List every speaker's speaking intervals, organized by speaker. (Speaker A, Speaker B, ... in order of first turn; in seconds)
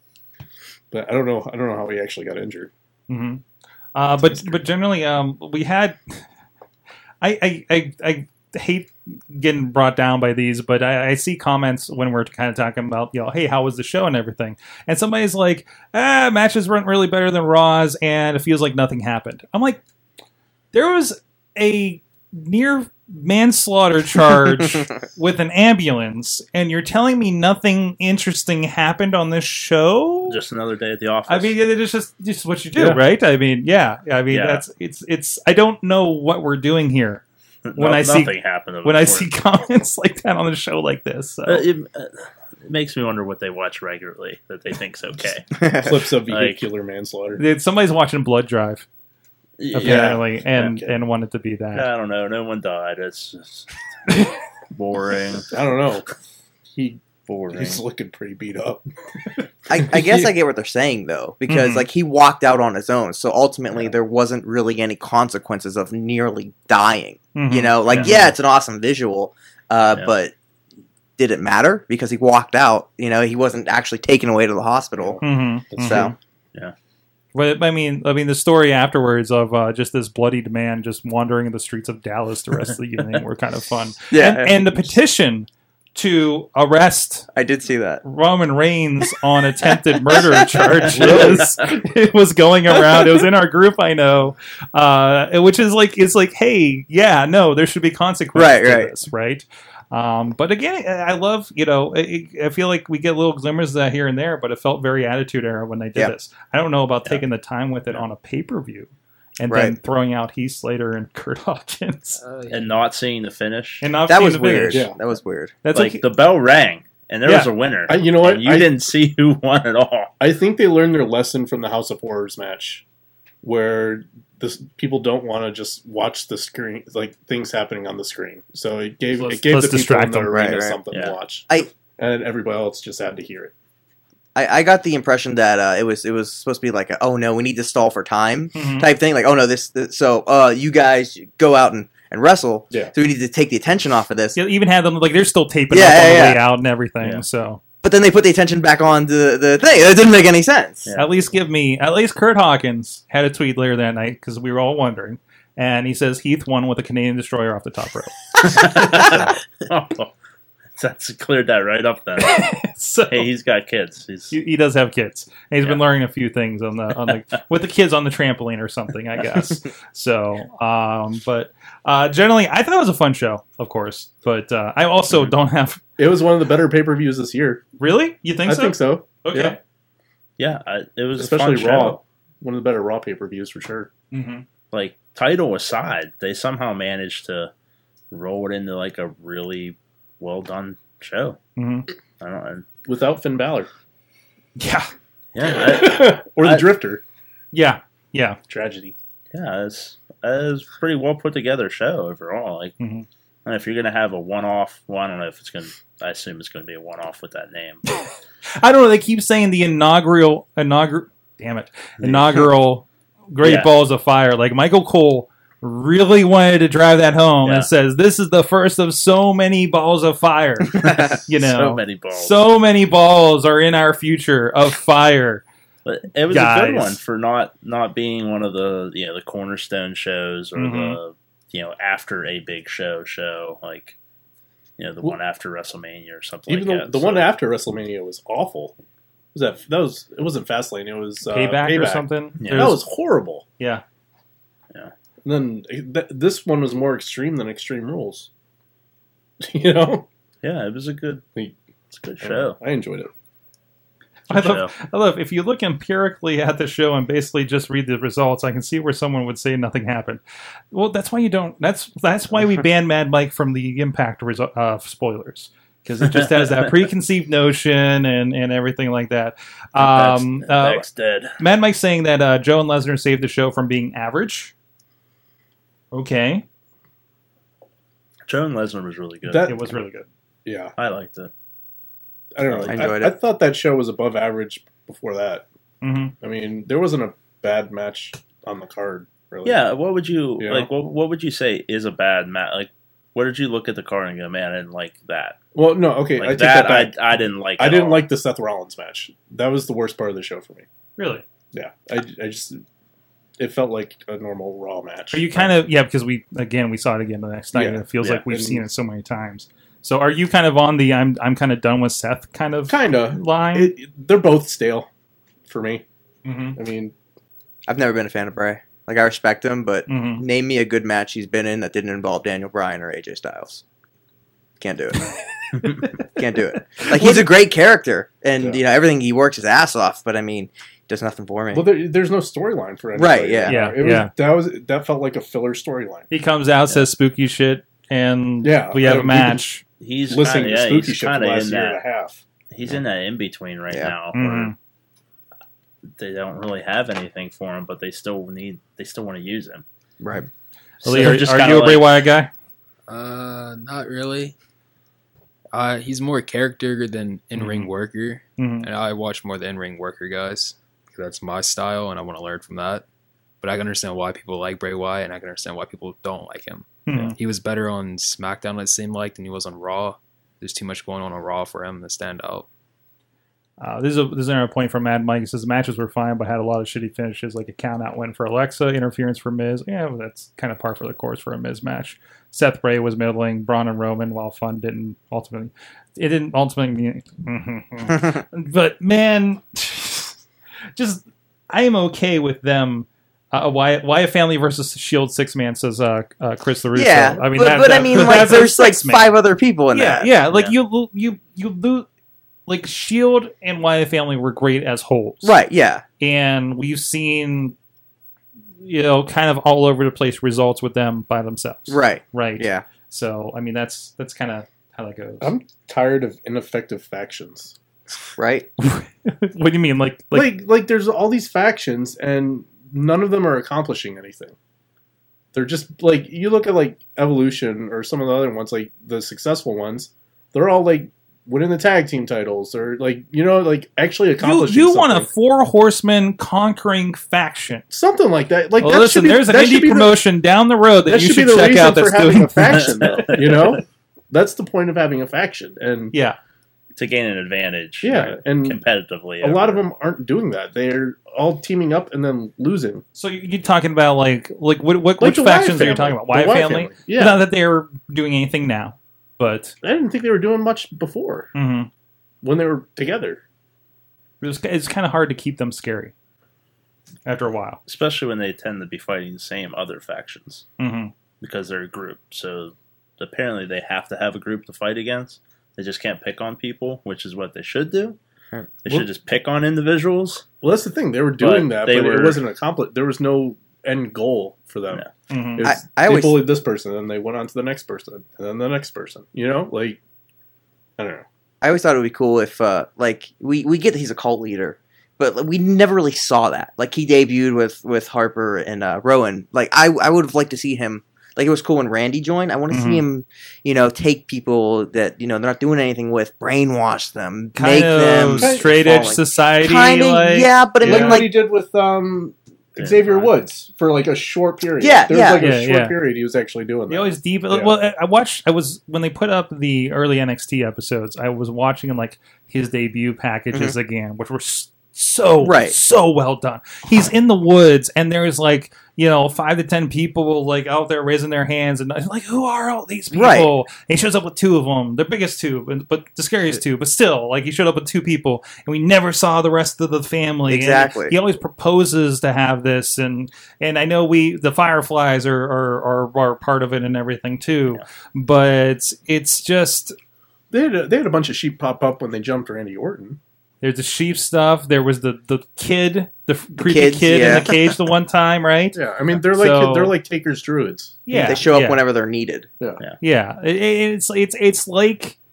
Speaker A: 0.9-2.7, 4.2-4.6, 45.8-47.4, 49.8-50.9, 55.5-56.1, 56.7-60.3, 75.0-76.1, 114.7-115.0, 117.9-118.7, 120.2-122.8, 123.4-133.5, 176.0-177.6, 178.4-179.6, 181.2-183.9, 192.8-193.7, 195.4-197.0, 198.5-198.9, 236.5-238.7, 239.3-243.4, 245.2-248.3, 249.4-250.1, 252.2-253.1, 279.2-279.8, 280.4-280.7, 282.3-285.4, 286.2-289.6, 290.4-290.7, 295.5-296.9, 297.6-300.6, 301.5-302.6, 303.4-305.5, 307.5-308.6, 312.7-314.9, 315.5-315.8, 316.5-316.9, 331.5-336.1, 338.4-339.4, 340.1-342.2, 415.2-417.6, 420.1-424.3, 425.3-435.1, 437.7-440.0, 440.9-445.9, 447.8-448.6, 449.2-452.8, 455.0-457.2, 459.6-461.3, 462.2-463.2, 480.4-484.8, 485.3-489.8, 490.8-491.0, 508.2-508.5, 510.6-517.5, 550.3-553.0, 558.5-560.9
Speaker B: 3.1-3.4, 3.9-6.2, 7.2-19.8, 20.7-30.4, 31.3-37.2, 37.8-41.6, 47.4-48.9, 49.7-51.9, 61.5-61.9, 67.3-68.3, 75.2-76.1, 77.3-87.3, 88.0-112.2, 113.8-114.9, 115.6-116.0, 117.2-117.5, 129.1-130.5, 138.5-138.9, 144.3-147.6, 151.0-159.3, 162.2-163.3, 164.3-175.8, 177.8-179.6, 184.1-184.4, 191.6-191.9, 194.6-194.9, 197.5-198.4, 202.8-203.1, 208.6-225.4, 226.3-227.0, 230.6-231.0, 241.2-242.8, 254.3-260.2, 260.7-270.9, 271.4-274.5, 275.9-276.4, 279.4-280.1, 285.8-286.1, 301.0-301.2, 305.1-313.7, 316.2-316.6, 319.9-320.2, 325.6-325.9, 326.8-327.2, 333.4-334.1, 336.1-339.6, 344.1-344.5, 350.8-352.3, 357.4-357.7, 358.4-358.7, 366.9-367.1, 373.6-390.2, 390.8-399.2, 399.7-401.9, 402.5-405.3, 406.0-407.5, 408.6-415.3, 418.6-420.4, 434.2-437.6, 438.6-443.0, 452.9-459.5, 461.3-461.7, 464.2-465.9, 467.1-467.6, 470.6-470.9, 485.1-485.4, 502.5-502.8, 507.3-511.1, 515.2-515.8, 516.7-549.8, 553.4-559.8, 560.9-561.6, 562.8-565.0
Speaker C: 30.3-31.5, 34.3-34.6, 37.6-39.3, 41.5-45.6, 46.3-46.6, 49.6-50.2, 51.7-53.7, 54.7-55.5, 57.3-57.8, 67.9-68.1, 90.9-91.7, 112.5-113.8, 115.7-120.1, 130.9-131.2, 150.8-151.2, 158.4-160.1, 160.8-162.5, 163.1-164.3, 180.4-182.0, 184.7-187.5, 188.1-191.4, 192.2-192.6, 195.3-196.7, 199.3-202.7, 203.4-207.8, 212.0-212.4, 213.4-213.7, 217.4-217.7, 220.8-222.4, 225.8-233.9, 234.8-237.3, 242.4-242.8, 250.4-251.2, 251.9-252.6, 254.3-254.7, 266.1-266.7, 269.8-271.4, 278.3-279.5, 280.8-281.3, 282.4-282.9, 289.4-295.4, 296.2-298.1, 339.8-341.8, 342.5-344.5, 346.0-349.6, 350.8-351.9, 442.5-443.6, 446.8-449.6, 467.7-470.4, 471.2-478.0, 478.6-480.2, 481.2-482.2, 512.6-513.1
Speaker D: 45.6-46.1, 59.7-70.3, 71.2-75.2, 75.8-76.1, 84.1-84.9, 87.3-88.0, 90.0-91.5, 98.3-98.9, 109.5-109.7, 114.1-115.5, 130.3-130.8, 134.3-144.4, 145.7-146.4, 147.8-150.9, 282.7-283.1, 317.7-323.6, 324.6-325.1, 326.1-331.7, 332.9-333.6, 350.0-350.3, 396.7-400.1, 405.2-405.8, 411.7-412.6, 418.1-418.5, 485.4-486.2, 491.4-511.1, 514.6-515.3, 525.2-525.5, 532.9-533.3, 540.3-541.0, 556.4-557.3, 560.9-562.3
Speaker E: 112.2-112.7, 352.9-354.3, 355.5-362.8, 363.4-372.5